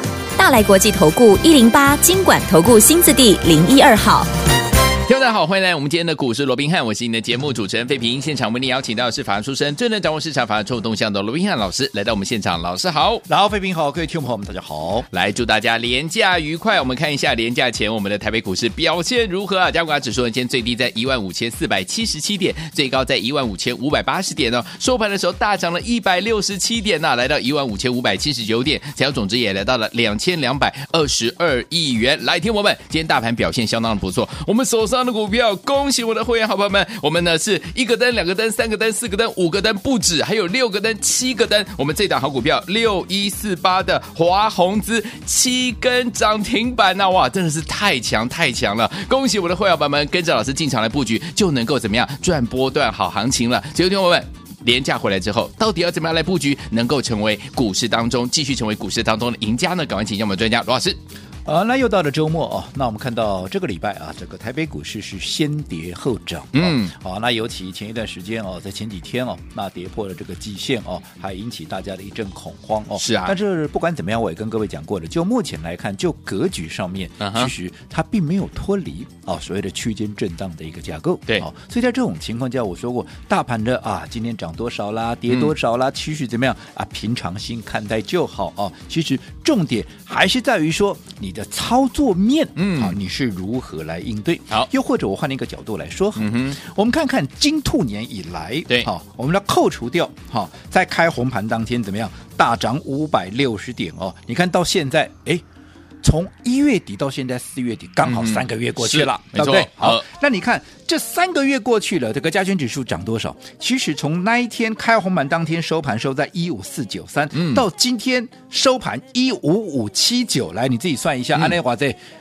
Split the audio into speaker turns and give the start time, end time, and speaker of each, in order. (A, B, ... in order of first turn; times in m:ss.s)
0:00.4-0:04.3 A
0:05.1-0:13.2 B
0:13.3-0:15.1 C
0:15.1-1:01.0 B
1:01.4-1:45.4 C
1:06.5-1:06.9 B
1:13.0-1:13.4 B
1:17.2-1:17.5 B
1:32.6-1:33.0 B
1:36.2-1:36.6 B
1:46.0-2:02.0 C
1:48.0-1:50.0 B
1:57.3-1:57.6 B